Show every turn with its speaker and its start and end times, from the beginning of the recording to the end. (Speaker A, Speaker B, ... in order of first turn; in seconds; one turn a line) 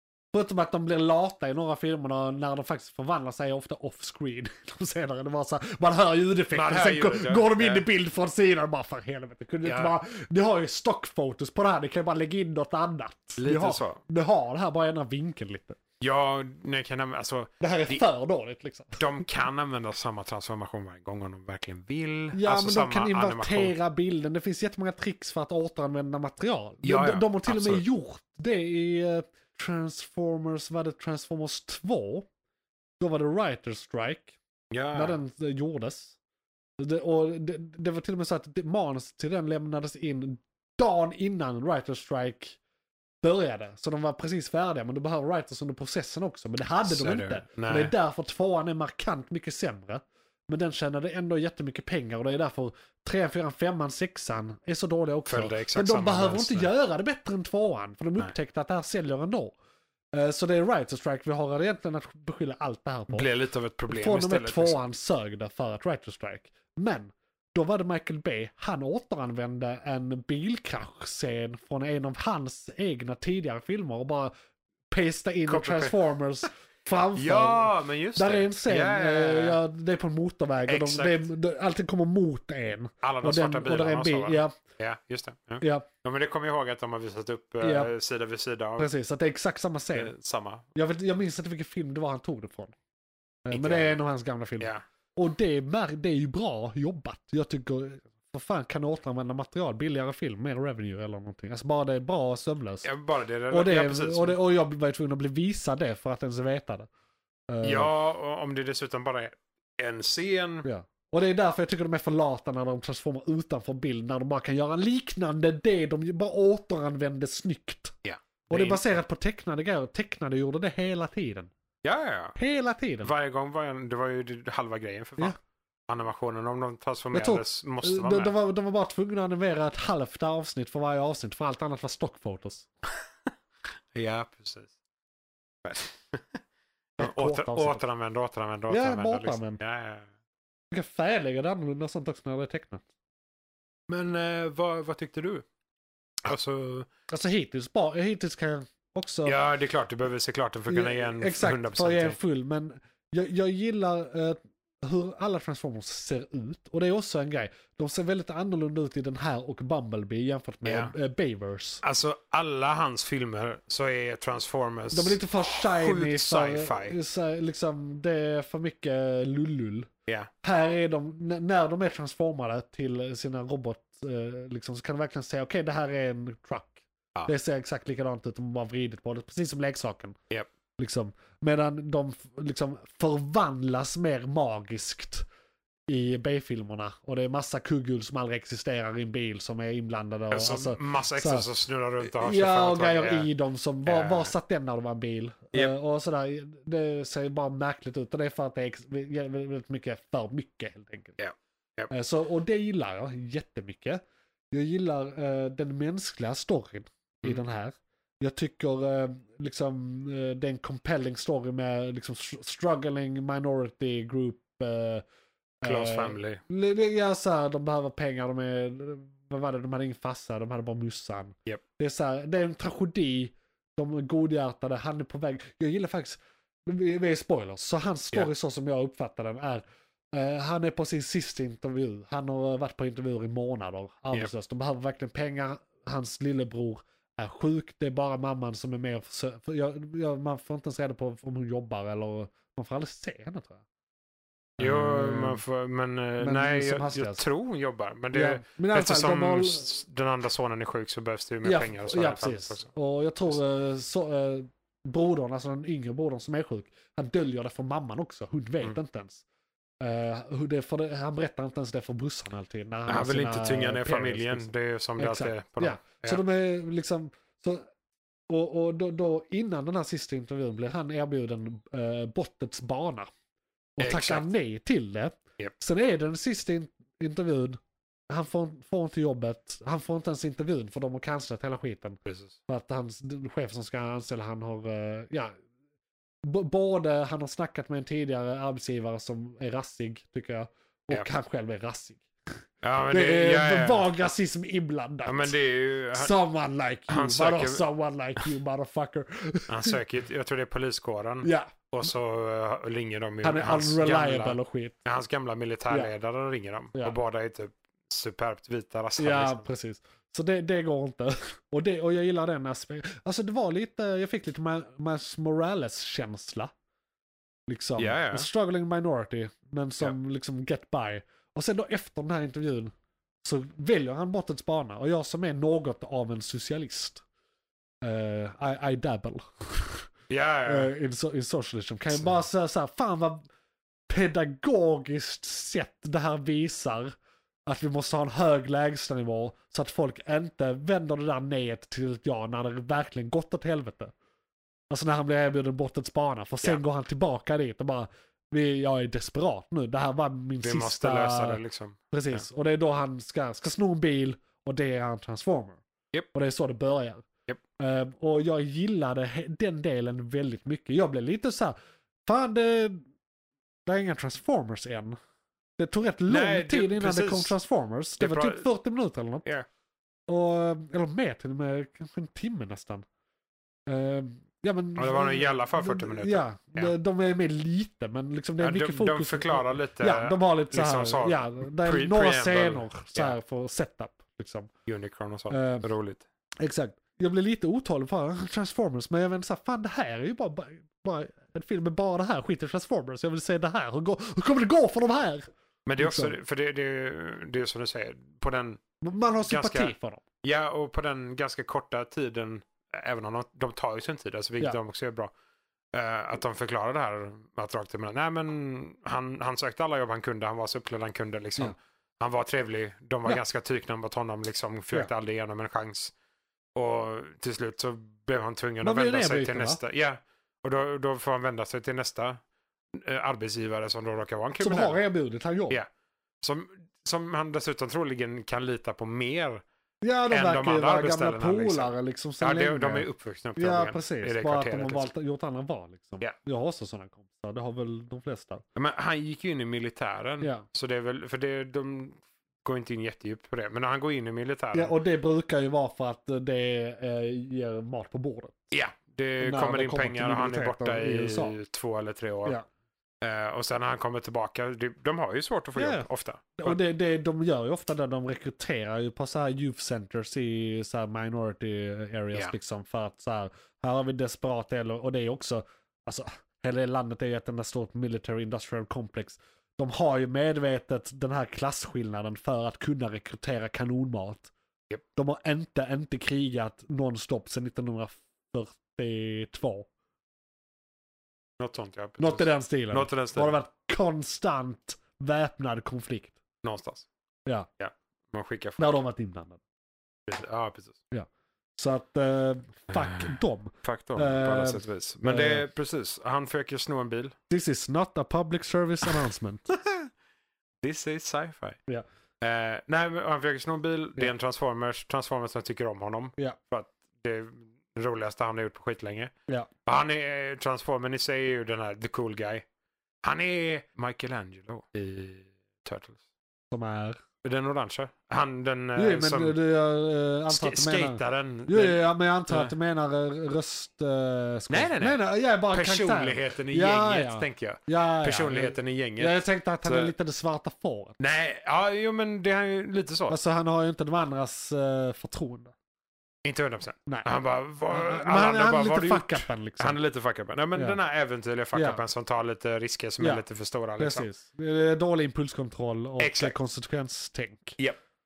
Speaker A: 0.3-15.8
Speaker B: 6.5-7.8
Speaker B: 9.6-9.9
Speaker B: 13.4-14.0
Speaker B: 16.0-18.0
Speaker A: 17.6-19.0
Speaker B: 19.0-23.7
Speaker A: 22.3-32.3
Speaker B: 26.8-27.8
Speaker A: 33.0-34.4
Speaker B: 34.7-35.2
Speaker A: 34.9-36.1
Speaker A: 36.8-42.6
Speaker A: 43.2-59.6
Speaker B: 46.9-47.9
Speaker B: 55.3-56.7
Speaker A: 60.1-63.3
Speaker B: 63.1-64.8
Speaker A: 63.9-74.3
Speaker A: 74.9-84.5
Speaker B: 75.5-76.0
Speaker B: 77.2-79.6
Speaker B: 80.7-81.3
Speaker B: 83.0-88.9
Speaker A: 85.6-85.9
Speaker A: 87.6-87.9
Speaker A: 88.8-90.1
Speaker B: 89.9-90.7
Speaker A: 90.8-92.7
Speaker A: 93.5-102.9
Speaker B: 93.5-94.0
Speaker B: 102.8-104.4
Speaker A: 103.5-106.9
Speaker A: 107.5-107.9
Speaker B: 107.6-110.7
Speaker A: 110.7-118.0
Speaker B: 118.0-118.9
Speaker A: 118.5-121.5
Speaker B: 121.8-122.4
Speaker A: 122.4-123.1
Speaker B: 123.0-125.4
Speaker B: 125.9-128.3
Speaker A: 127.1-132.7
Speaker B: 133.9-134.7
Speaker B: 135.6-136.4
Speaker B: 137.0-140.1
Speaker A: 137.0-137.8
Speaker A: 138.7-139.6
Speaker A: 140.7-142.8
Speaker B: 143.9-145.4
Speaker B: 146.2-146.9
Speaker A: 147.1-149.4
Speaker B: 149.2-152.2
Speaker A: 150.7-161.8
Speaker B: 160.7-160.9
Speaker B: 161.8-167.0
Speaker A: 164.9-169.9
Speaker A: 170.4-180.2
Speaker A: 180.8-185.2
Speaker A: 185.9-191.5
Speaker B: 190.3-193.3
Speaker A: 192.1-201.2
Speaker B: 193.8-194.3
Speaker B: 201.2-201.9
Speaker A: 201.9-204.0
Speaker A: 204.5-215.0
Speaker A: 215.6-243.6
Speaker B: 215.6-216.4
Speaker A: 244.6-245.4
Speaker B: 244.6-252.7
Speaker A: 246.2-247.2
Speaker A: 248.1-249.7
Speaker A: 251.4-259.2
Speaker A: 259.8-267.6
Speaker B: 262.9-266.2
Speaker A: 268.3-273.1
Speaker A: 273.8-277.6
Speaker B: 273.8-274.3
Speaker A: 278.1-285.3
Speaker B: 282.1-282.4
Speaker A: 286.2-292.1
Speaker B: 292.6-293.9
Speaker A: 292.9-295.3
Speaker B: 295.1-296.1
Speaker A: 295.9-299.8
Speaker B: 296.9-297.6
Speaker B: 299.5-309.5
Speaker A: 301.2-301.5
Speaker A: 303.2-304.8
Speaker A: 309.0-316.5
Speaker A: 317.5-327.0
Speaker B: 317.8-318.3
Speaker A: 327.8-329.9
Speaker B: 330.1-330.7
Speaker A: 330.5-333.3
Speaker A: 333.9-336.9
Speaker A: 337.5-343.9
Speaker A: 344.7-355.6
Speaker B: 350.4-352.2
Speaker A: 356.1-357.1
Speaker A: 357.6-362.8
Speaker A: 363.7-365.0
Speaker A: 365.6-369.3
Speaker B: 366.1-367.4
Speaker B: 368.0-368.5
Speaker A: 370.1-372.9
Speaker A: 373.7-384.5
Speaker B: 374.8-376.7
Speaker B: 378.4-383.2
Speaker B: 384.7-386.0
Speaker A: 385.3-385.7
Speaker A: 386.4-396.1
Speaker B: 395.7-398.6
Speaker A: 398.8-400.0
Speaker B: 399.3-405.1
Speaker B: 405.7-415.9
Speaker B: 416.6-422.2
Speaker A: 418.6-419.6
Speaker B: 422.7-424.8
Speaker A: 424.4-425.6
Speaker B: 426.2-429.4
Speaker A: 429.8-438.4
Speaker B: 430.1-434.9
Speaker B: 438.6-444.8
Speaker A: 444.5-448.5
Speaker B: 448.5-452.4
Speaker A: 449.2-451.4
Speaker B: 453.0-456.6
Speaker A: 455.6-455.9
Speaker A: 456.4-474.3
Speaker A: 474.9-479.7
Speaker B: 481.4-483.4
Speaker A: 482.0-486.2
Speaker B: 486.4-486.9
Speaker B: 487.6-488.7
Speaker A: 488.6-489.4
Speaker B: 490.1-490.8
Speaker A: 490.9-495.4
Speaker B: 492.7-497.1
Speaker A: 497.3-499.5
Speaker B: 500.6-501.6
Speaker B: 502.2-509.1
Speaker B: 509.7-512.5
Speaker B: 513.0-516.0
Speaker A: 516.5-517.0
Speaker B: 517.2-519.4
Speaker A: 518.8-531.0
Speaker B: 520.3-522.5
Speaker B: 524.5-529.9
Speaker B: 531.0-533.2
Speaker A: 533.1-535.5
Speaker B: 536.2-544.1
Speaker A: 537.7-539.8
Speaker A: 541.5-541.8
Speaker A: 543.8-547.6
Speaker B: 546.0-546.4